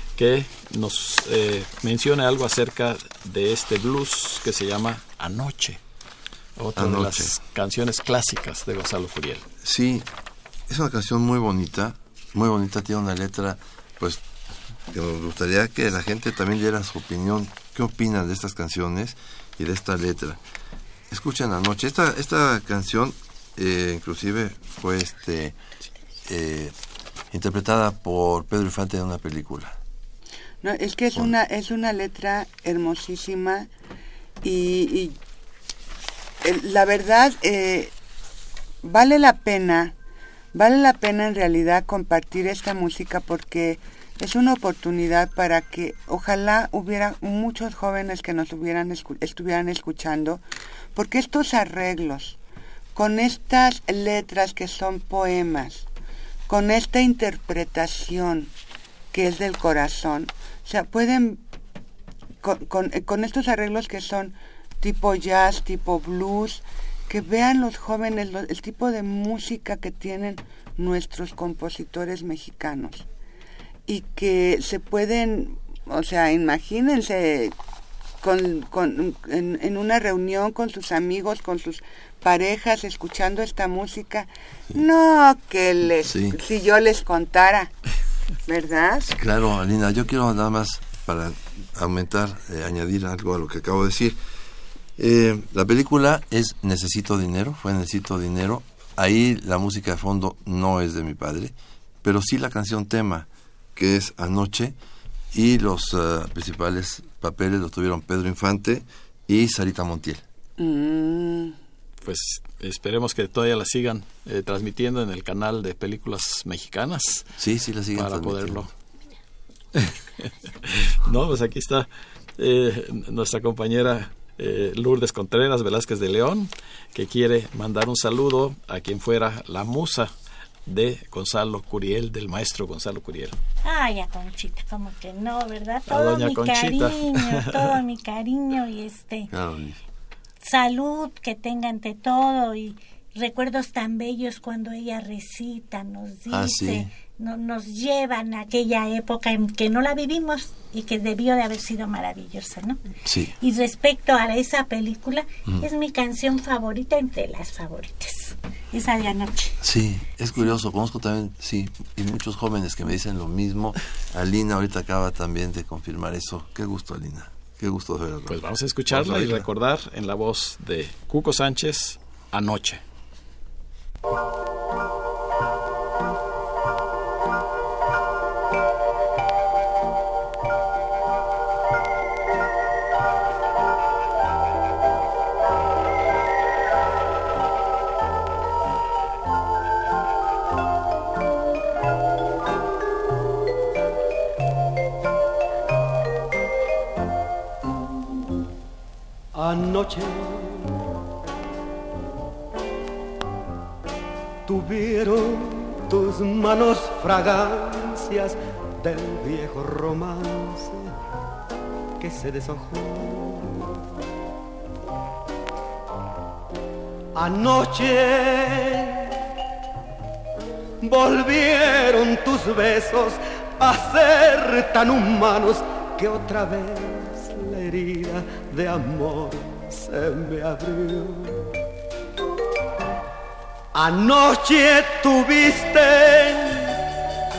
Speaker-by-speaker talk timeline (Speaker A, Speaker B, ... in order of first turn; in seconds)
Speaker A: 0.1-5.8, 6.6-9.5, 112.0-117.3, 117.9-118.7, 119.7-130.1, 130.7-133.4, 135.9-137.8, 168.3-172.8
Speaker B: 6.8-7.3, 9.6-10.1, 10.7-14.2, 14.9-20.4, 21.1-25.6, 26.2-26.7, 27.3-29.8, 86.0-86.4, 89.1-94.2, 95.0-104.8, 105.3-110.2, 117.4-118.7, 139.3-139.8, 146.3-146.9, 153.0-153.3, 159.6-169.5
Speaker C: 30.6-33.7, 34.4-35.1, 36.4-37.9, 38.8-39.9, 40.5-50.4, 50.9-52.4, 52.9-55.9, 56.5-58.5, 59.1-61.4, 62.4-73.0, 73.9-77.5, 78.2-87.7, 88.5-89.1, 110.6-111.6
Speaker D: 133.6-139.3, 140.4-152.8, 153.4-159.6
Speaker E: 199.3-200.7, 204.4-210.9, 212.0-213.8, 217.1-219.1, 220.8-231.5, 233.7-236.8